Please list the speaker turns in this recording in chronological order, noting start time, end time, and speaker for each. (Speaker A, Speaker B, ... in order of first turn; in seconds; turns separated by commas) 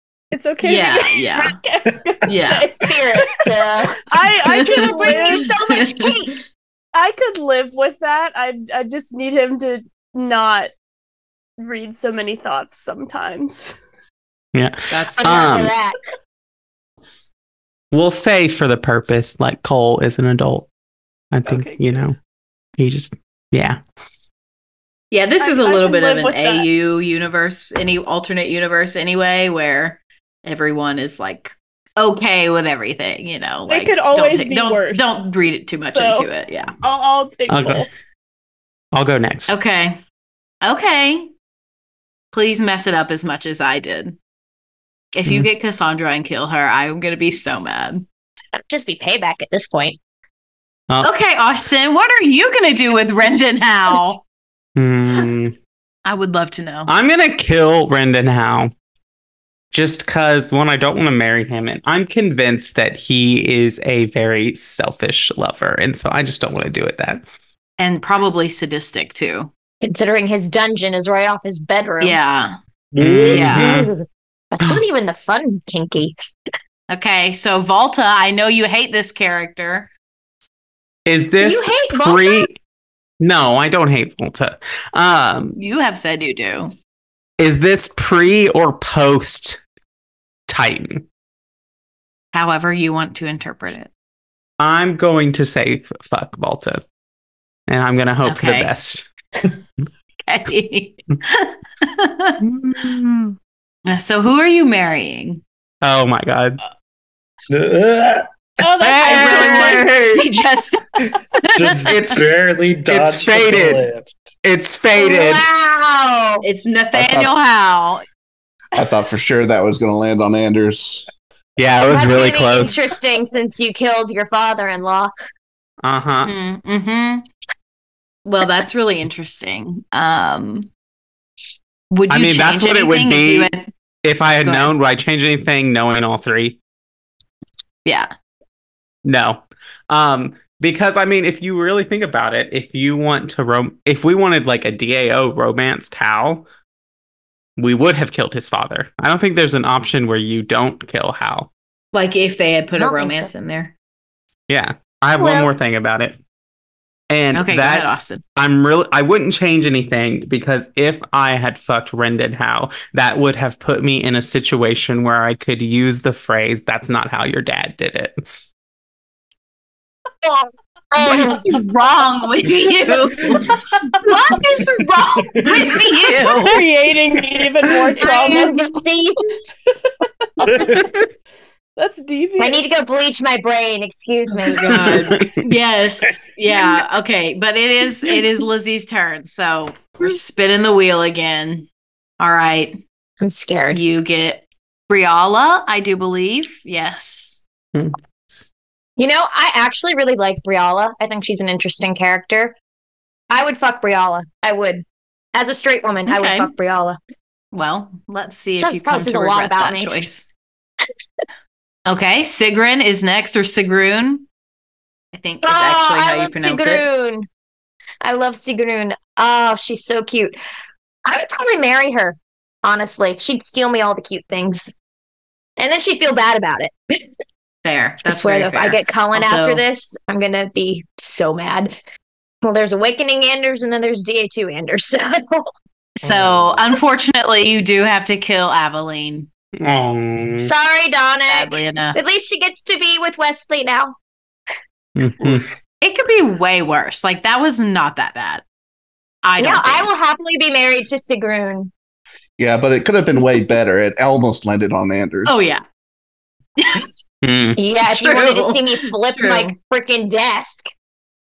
Speaker A: 0.3-3.2, Speaker B: 0.6-1.5, Speaker B: 2.3-2.7, Speaker C: 2.9-4.0, Speaker A: 4.1-5.6, Speaker B: 4.5-6.2, Speaker C: 4.6-6.3, Speaker A: 6.9-10.7, Speaker A: 11.6-13.8, Speaker D: 14.5-15.7, Speaker B: 14.9-15.5, Speaker C: 15.2-16.0, Speaker D: 17.9-20.7, Speaker D: 21.3-22.1, Speaker A: 21.5-22.1, Speaker D: 22.8-23.8, Speaker B: 25.1-36.7, Speaker A: 25.4-26.7, Speaker A: 33.7-35.2, Speaker A: 35.9-36.3, Speaker A: 36.8-37.9, Speaker D: 37.5-37.9, Speaker D: 38.9-39.5, Speaker B: 39.5-40.0, Speaker B: 40.6-41.3, Speaker B: 42.3-44.2, Speaker B: 45.1-48.0, Speaker C: 48.7-50.0, Speaker B: 51.0-54.2, Speaker D: 54.8-55.5, Speaker B: 56.0-56.9, Speaker D: 56.9-58.7, Speaker D: 59.7-67.2, Speaker B: 67.8-69.5, Speaker C: 69.8-72.2, Speaker B: 72.0-72.5, Speaker D: 73.0-73.9, Speaker C: 73.0-76.1, Speaker B: 73.2-73.8, Speaker B: 76.9-79.9, Speaker D: 81.1-82.6, Speaker C: 81.4-82.5, Speaker D: 83.2-85.6, Speaker B: 85.6-86.7, Speaker D: 87.4-89.6, Speaker D: 90.5-91.0, Speaker B: 92.3-93.9, Speaker D: 94.6-96.8, Speaker D: 97.7-99.0, Speaker B: 98.2-98.7, Speaker B: 100.2-102.4, Speaker D: 102.4-103.3, Speaker B: 103.8-105.4, Speaker D: 105.8-106.6, Speaker E: 107.5-108.3, Speaker A: 108.6-110.0, Speaker D: 108.8-110.3, Speaker B: 109.0-110.8, Speaker E: 111.1-114.1, Speaker B: 111.4-112.2, Speaker D: 111.8-112.3, Speaker D: 112.9-113.9, Speaker D: 114.4-115.4, Speaker C: 114.9-116.4, Speaker B: 116.4-118.0, Speaker F: 116.9-117.3, Speaker F: 118.8-121.0, Speaker D: 121.6-122.8, Speaker C: 121.8-125.1, Speaker D: 125.8-126.3, Speaker B: 126.2-127.3, Speaker B: 128.2-130.7, Speaker B: 131.9-133.7, Speaker D: 132.1-133.5, Speaker D: 134.0-136.6, Speaker B: 134.4-134.7, Speaker D: 139.0-146.4, Speaker D: 147.6-151.5, Speaker B: 151.9-153.7, Speaker C: 152.8-153.3, Speaker D: 154.5-156.2, Speaker C: 155.2-155.5, Speaker D: 157.1-168.2, Speaker B: 157.3-158.2, Speaker C: 170.2-171.5, Speaker B: 171.0-176.6, Speaker A: 176.4-178.6, Speaker C: 178.0-179.4, Speaker E: 180.5-180.9, Speaker A: 181.8-182.7, Speaker C: 182.4-185.0, Speaker B: 184.4-191.7, Speaker D: 184.7-185.5, Speaker B: 192.2-192.8, Speaker C: 193.2-193.8, Speaker B: 193.7-197.4, Speaker C: 199.0-202.6, Speaker C: 203.3-207.0, Speaker B: 206.1-206.5, Speaker B: 207.5-210.3, Speaker C: 208.6-209.9, Speaker B: 211.9-214.2, Speaker B: 215.1-216.8, Speaker C: 215.4-217.3, Speaker C: 218.0-220.3, Speaker C: 221.1-224.7, Speaker C: 225.6-226.7, Speaker B: 227.6-229.6, Speaker C: 228.0-231.7, Speaker C: 232.4-235.5, Speaker E: 236.0-236.7, Speaker B: 236.0-239.3, Speaker D: 239.6-240.5, Speaker C: 240.4-243.9, Speaker B: 241.3-242.0, Speaker D: 244.9-245.5, Speaker B: 245.8-248.4, Speaker B: 249.2-249.9, Speaker C: 249.4-251.7, Speaker F: 252.4-255.5, Speaker B: 255.2-255.6, Speaker B: 256.6-256.8, Speaker D: 257.2-257.6, Speaker C: 257.6-260.7, Speaker B: 257.9-259.5